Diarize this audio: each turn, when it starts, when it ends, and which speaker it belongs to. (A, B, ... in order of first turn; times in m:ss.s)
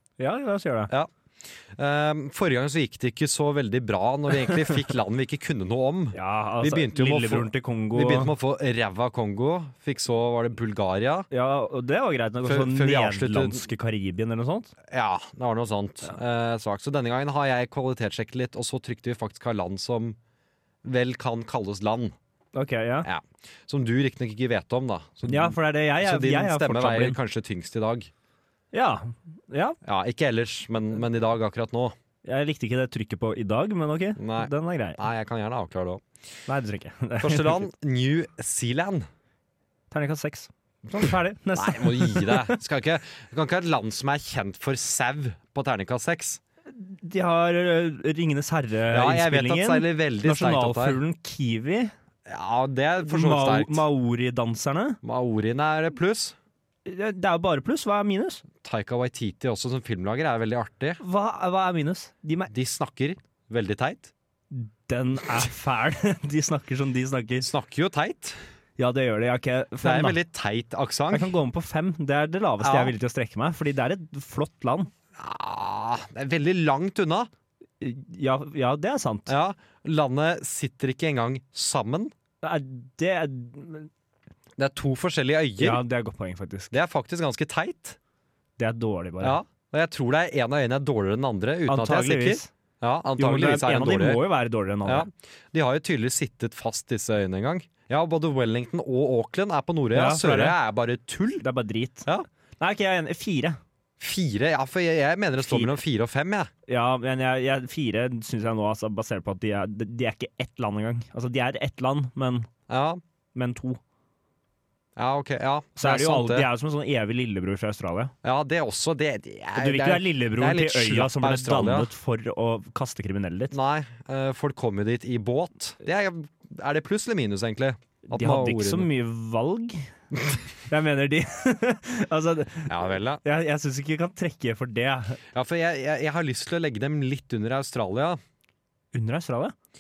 0:00.2-0:00.9 A
0:00.9-0:11.3 B
0:06.1-0:08.3 A
0:11.3-0:14.7 A
0:12.4-0:13.6 B
0:14.9-0:20.2 B
0:20.8-0:22.2 B
0:22.5-0:23.1 A
0:23.0-0:28.1 B
0:25.3-0:27.2 A
0:28.7-0:29.8 A
0:29.8-0:32.0 B
0:32.2-0:35.0 A
0:34.2-0:36.0 B
0:36.5-0:37.7 A
0:37.2-0:39.1 B
0:39.9-0:42.6 A
0:40.9-0:46.4 B
0:46.7-0:51.9 A
0:48.9-0:51.0 B
0:52.3-0:53.9 B
0:53.0-0:55.0 A
0:55.0-0:56.4 B
0:56.9-0:58.4 A
0:58.6-1:01.0 B
1:01.0-1:02.5 A
1:02.5-1:04.1 B
1:04.5-1:07.5 A
1:07.4-1:08.4 B
1:08.8-1:10.2 A
1:09.8-1:11.3 B
1:11.1-1:14.9 A
1:12.6-1:12.9 B
1:15.2-1:17.3 B
1:17.8-1:19.3 A
1:19.3-1:22.1 B
1:22.4-1:23.9 A
1:24.6-1:25.8 B
1:25.6-1:26.7 A
1:26.7-1:28.0 B
1:28.6-1:29.4 A
1:29.2-1:34.3 B
1:31.7-1:32.5 A
1:33.2-1:35.1 A
1:34.8-1:41.4 B
1:39.9-1:40.6 A
1:41.4-1:43.6 A
1:44.0-1:46.5 B
1:45.4-1:45.8 A
1:46.7-1:52.5 A
1:52.7-1:53.0 B
1:53.4-1:53.8 A
1:55.0-1:56.5 B
1:55.8-1:58.1 A
1:58.2-2:01.9 B
1:59.6-2:03.6 A
2:03.5-2:08.9 B
2:08.1-2:09.9 A
2:10.7-2:15.2 A
2:12.7-2:13.2 B
2:15.3-2:18.2 B
2:18.9-2:19.6 A